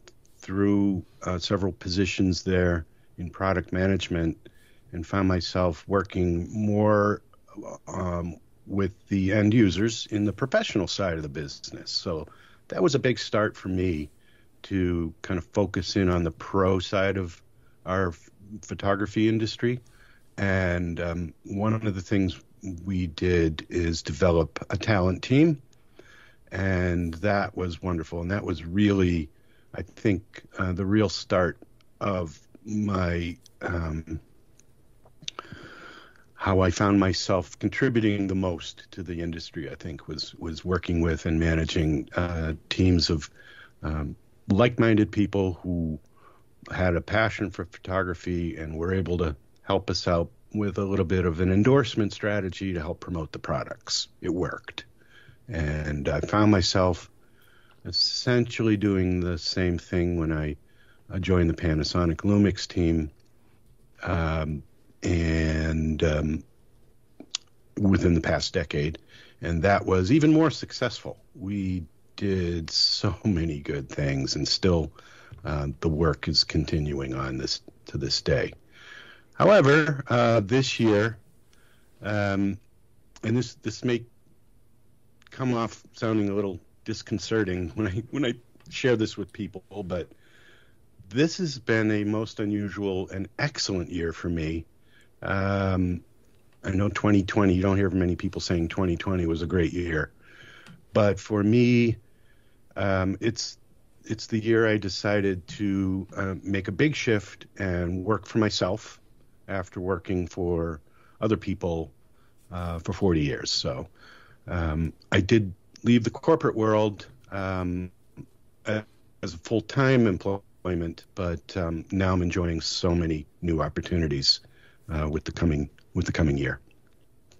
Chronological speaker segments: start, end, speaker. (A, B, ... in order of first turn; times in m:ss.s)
0:00.4-0:19.8 A
0:20.4-0:25.6 A
0:26.5-0:34.2 A
0:36.4-0:43.3 A
0:43.8-0:46.0 A
0:46.7-0:54.9 A
0:55.5-0:57.1 A
0:57.8-1:00.6 A
1:01.1-1:03.1 A
1:04.0-1:06.4 A
1:07.8-1:18.5 A
1:19.4-1:21.2 A
1:22.0-1:22.6 A
1:23.2-1:24.1 A
1:25.3-1:30.1 A
1:31.1-1:34.7 A
1:35.2-1:36.0 A
1:36.6-1:40.1 A
1:40.9-1:42.0 A
1:42.8-1:51.9 A
1:52.5-1:53.9 A
1:54.5-1:57.9 A
1:58.6-2:06.6 A